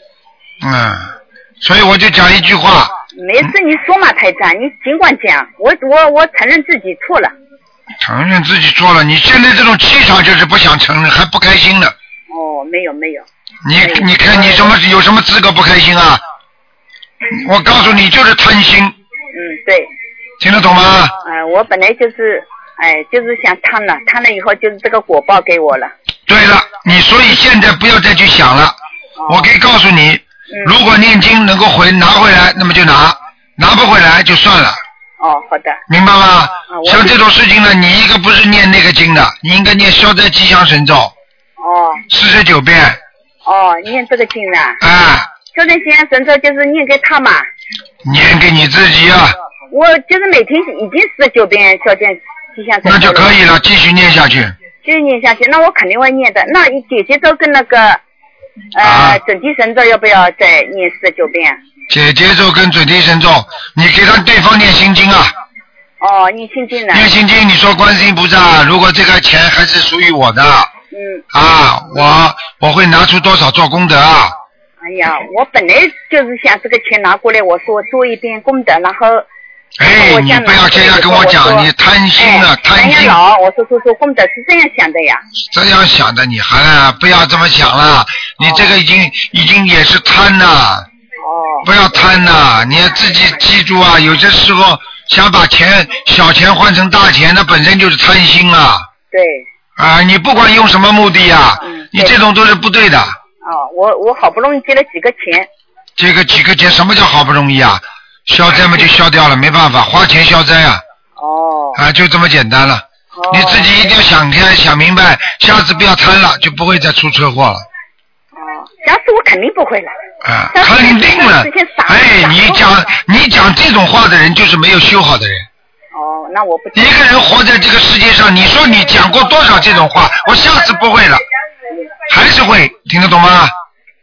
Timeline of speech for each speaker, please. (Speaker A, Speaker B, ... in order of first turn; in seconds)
Speaker A: 0.6-3.5, 8.0-11.9, 13.6-16.2, 17.3-18.9, 20.4-21.1, 26.3-28.8, 29.3-34.8, 35.9-41.1, 42.1-43.0, 44.8-45.3, 48.0-49.4, 52.8-54.5, 58.8-59.2, 61.9-65.3, 66.9-70.7, 71.3-74.3, 79.8-83.2, 85.5-90.9, 91.6-98.9, 99.8-103.2, 106.0-110.8, 111.7-117.6, 120.2-125.5, 126.7-131.2, 132.1-133.5
Speaker B: 3.1-7.3, 12.3-13.2, 13.8-14.7, 19.3-19.9, 21.2-25.9, 29.2-29.5, 35.2-35.8, 36.7-37.2, 41.6-42.0, 43.4-44.8, 45.5-47.5, 49.7-53.4, 54.8-58.0, 58.7-61.6, 66.0-67.1, 70.9-71.2, 74.8-79.2, 79.9-85.2, 88.4-88.7, 91.2-91.7, 99.1-99.5, 101.6-102.2, 103.4-105.5, 111.2-111.8, 113.1-113.9, 118.3-119.9, 120.5-122.7, 125.9-126.9